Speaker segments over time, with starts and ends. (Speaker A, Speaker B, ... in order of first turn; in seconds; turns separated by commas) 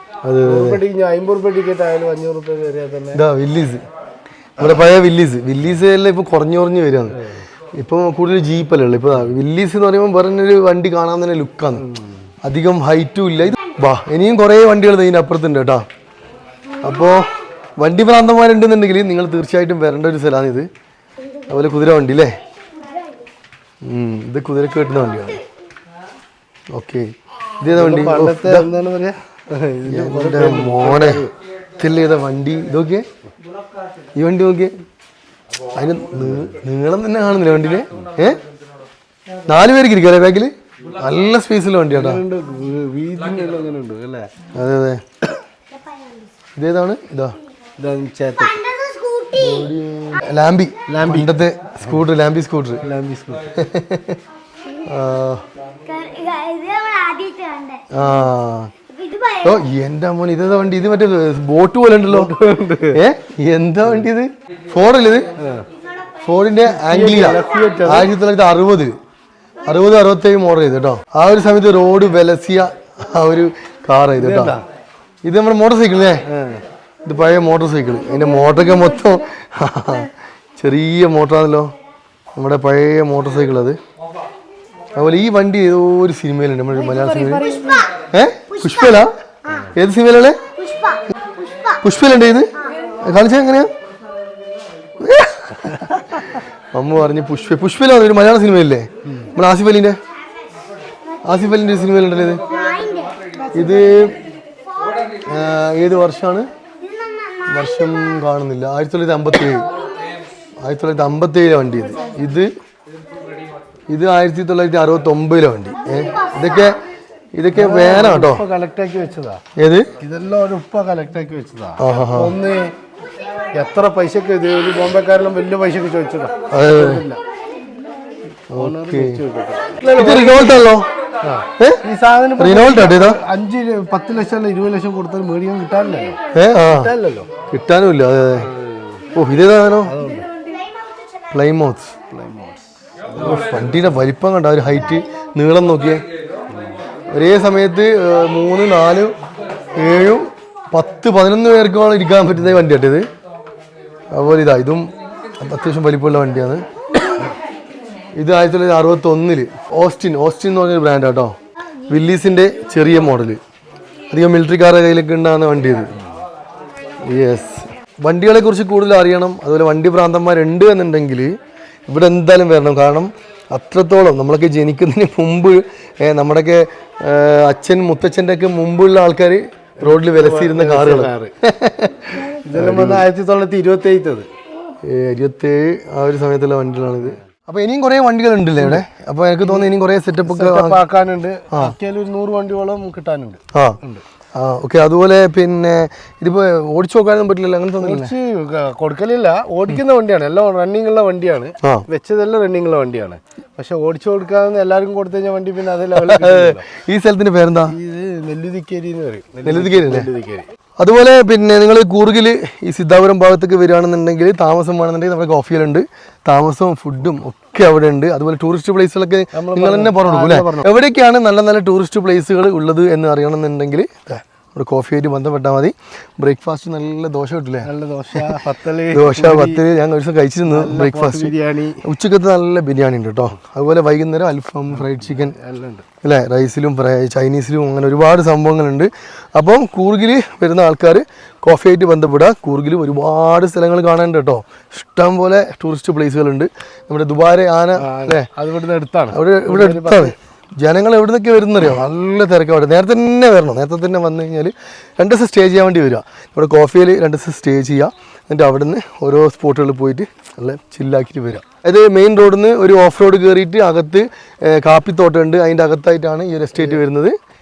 Speaker A: 0.2-0.8, Speaker B: 0.4-3.2, Speaker A: 3.1-3.8, Speaker A: 4.6-7.2, Speaker B: 7.1-7.4, Speaker A: 7.8-11.9, Speaker B: 11.8-12.1, Speaker A: 12.4-15.8, Speaker A: 16.8-20.7, Speaker A: 21.4-22.3, Speaker A: 23.8-25.4, Speaker A: 26.7-28.7, Speaker B: 27.7-31.3, Speaker A: 29.9-31.2, Speaker A: 31.8-33.0, Speaker A: 34.1-34.7, Speaker A: 35.7-38.4, Speaker A: 39.5-42.2, Speaker B: 41.9-44.3, Speaker A: 44.5-45.0, Speaker C: 45.7-46.3, Speaker A: 46.5-47.4, Speaker B: 47.8-48.6, Speaker C: 48.4-49.7, Speaker A: 49.4-52.8, Speaker B: 50.9-51.4, Speaker B: 52.8-53.5, Speaker A: 53.5-54.2, Speaker A: 54.8-55.4, Speaker C: 55.8-58.0, Speaker A: 57.9-58.7, Speaker C: 58.9-59.6, Speaker A: 59.4-62.3, Speaker B: 62.0-63.0, Speaker A: 62.9-65.3, Speaker B: 65.4-65.7, Speaker A: 66.2-68.9, Speaker B: 66.7-68.1, Speaker A: 69.6-74.6, Speaker B: 74.2-74.6, Speaker A: 75.2-76.2, Speaker B: 76.2-76.6, Speaker A: 77.0-81.7, Speaker A: 82.3-83.8, Speaker A: 85.0-89.1, Speaker C: 87.5-87.9, Speaker C: 88.6-89.0, Speaker A: 89.6-90.4, Speaker C: 90.6-91.8, Speaker A: 91.8-93.7, Speaker A: 95.0-100.0, Speaker A: 101.2-102.4, Speaker C: 102.5-103.6, Speaker A: 103.5-104.2, Speaker A: 105.2-106.5, Speaker C: 106.8-107.6, Speaker A: 107.5-109.7, Speaker A: 110.6-112.5, Speaker A: 113.9-116.8, Speaker A: 117.3-118.4, Speaker B: 117.5-119.4, Speaker A: 119.5-119.9, Speaker B: 120.0-122.7, Speaker A: 121.8-122.3, Speaker B: 123.5-127.2, Speaker A: 126.5-127.0, Speaker A: 128.5-129.2, Speaker B: 128.5-130.7, Speaker A: 129.9-130.9, Speaker B: 131.2-137.3, Speaker A: 131.6-131.8, Speaker A: 132.4-133.2, Speaker A: 136.3-136.9, Speaker A: 137.4-138.5, Speaker B: 138.4-138.8, Speaker A: 139.1-140.0, Speaker B: 139.8-140.3, Speaker A: 141.3-141.9, Speaker B: 142.1-143.9, Speaker A: 143.2-146.0, Speaker B: 146.5-146.8, Speaker A: 147.1-149.1, Speaker A: 149.8-153.0, Speaker A: 154.1-156.6, Speaker A: 158.2-161.3, Speaker A: 161.9-163.4, Speaker A: 164.1-165.9, Speaker A: 167.0-171.3, Speaker A: 171.9-183.1, Speaker B: 179.8-181.3, Speaker B: 182.2-184.3, Speaker A: 184.8-190.8, Speaker B: 188.6-188.8, Speaker B: 189.4-189.7, Speaker B: 190.2-194.0, Speaker A: 191.5-191.8, Speaker A: 193.5-193.8, Speaker A: 194.3-198.1, Speaker B: 197.8-206.7, Speaker A: 206.0-207.8, Speaker B: 207.7-210.5, Speaker A: 209.4-210.1, Speaker A: 210.8-228.4, Speaker B: 219.3-220.7, Speaker B: 227.6-229.6, Speaker A: 228.9-235.3, Speaker B: 230.5-231.8, Speaker B: 234.7-235.9, Speaker A: 236.0-248.3, Speaker B: 247.8-250.2, Speaker A: 249.1-267.1